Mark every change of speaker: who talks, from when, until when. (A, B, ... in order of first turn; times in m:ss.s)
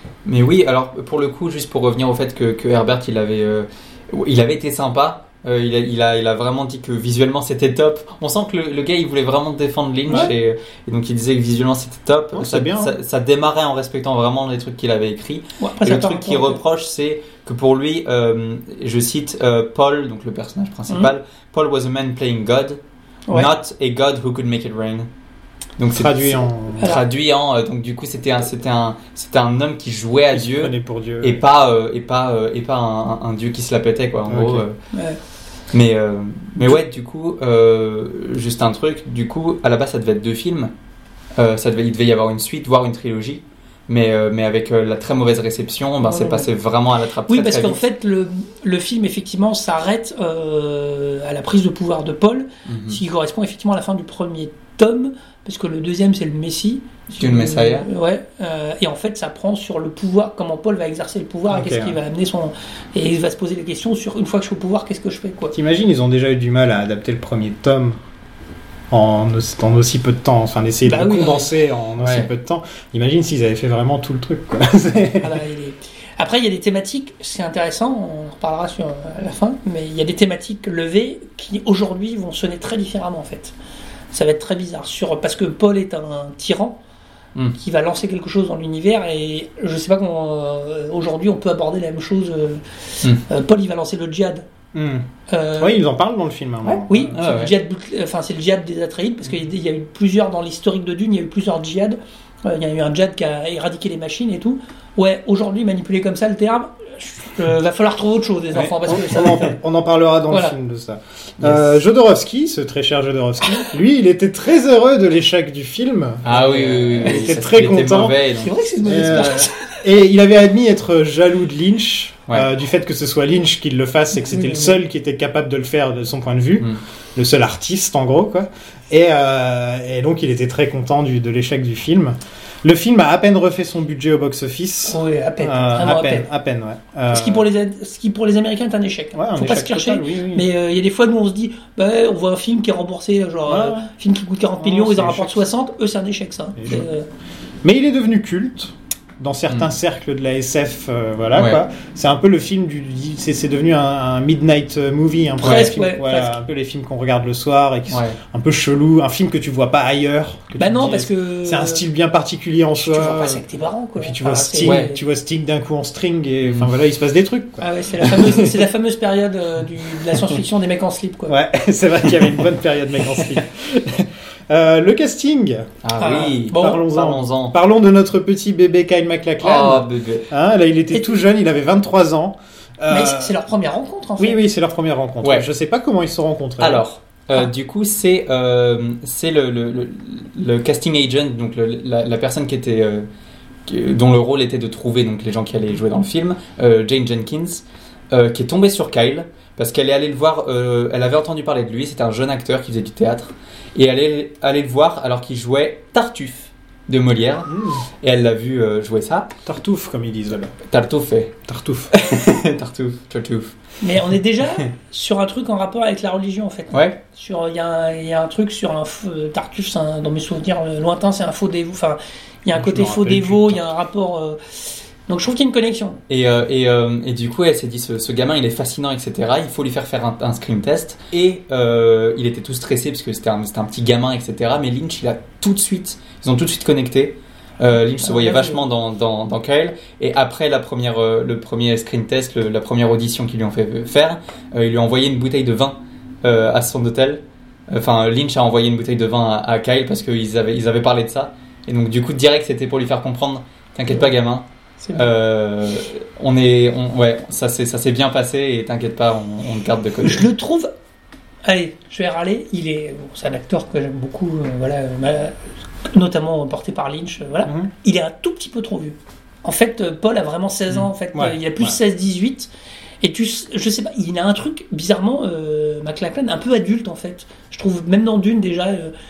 0:00.2-0:22.8 A
0:12.3-0:12.9 B
0:15.6-0:16.6 C
0:23.3-0:25.1 A
0:25.8-0:34.8 A
0:25.9-0:26.9 B
0:30.3-0:31.4 B
0:34.3-0:34.6 B
0:34.9-0:35.2 C
0:35.7-0:40.7 A
0:41.4-0:47.8 A
0:46.0-0:46.5 C
0:47.3-1:05.6 C
0:52.7-0:53.0 A
0:57.2-0:57.9 A
1:01.5-1:02.0 B
1:05.5-1:08.0 B
1:08.9-1:15.4 B
1:10.8-1:11.5 C
1:12.0-1:12.3 A
1:15.2-1:23.6 C
1:24.1-1:26.8 C
1:27.6-1:34.5 C
1:34.7-1:35.0 B
1:35.3-1:35.8 C
1:35.6-1:37.2 B
1:36.7-1:49.6 C
1:37.1-1:37.5 A
1:48.6-1:58.3 B
1:50.3-1:50.6 C
1:51.4-1:51.7 A
1:56.2-1:59.3 A
1:58.4-1:59.7 C
1:58.8-2:17.5 B
2:04.2-2:04.8 C
2:14.9-2:16.3 C
2:17.1-2:27.1 C
2:19.1-2:20.5 B
2:23.5-2:23.9 B
2:24.6-2:25.5 B
2:26.6-2:26.9 B
2:27.6-2:43.4 B
2:31.4-2:31.6 A
2:35.4-2:36.4 C
2:37.9-2:38.2 A
2:40.6-2:41.9 C
2:42.8-2:45.0 C
2:44.0-2:48.7 B
2:44.6-2:44.9 A
2:46.4-2:46.7 A
2:47.6-2:51.4 C
2:51.3-2:55.8 B
2:55.8-2:57.6 A
2:56.0-2:56.8 C
2:56.5-3:03.4 B
2:59.4-3:00.3 A
3:00.9-3:01.2 C
3:02.9-3:04.4 C
3:04.2-3:06.8 B
3:05.2-3:05.5 A
3:06.6-3:13.1 A
3:13.7-3:29.3 A
3:27.5-3:27.8 B
3:29.4-3:30.5 B
3:30.6-3:31.4 A
3:31.5-3:31.9 B
3:31.9-3:33.5 A
3:33.8-3:46.0 C
3:36.7-3:37.0 A
3:42.6-3:43.7 B
3:46.1-4:20.3 A
3:58.0-3:58.6 C
4:20.0-4:20.7 C
4:21.4-4:25.4 C
4:25.9-4:32.5 C
4:27.4-4:27.7 B
4:31.1-4:31.8 B
4:33.0-4:38.9 C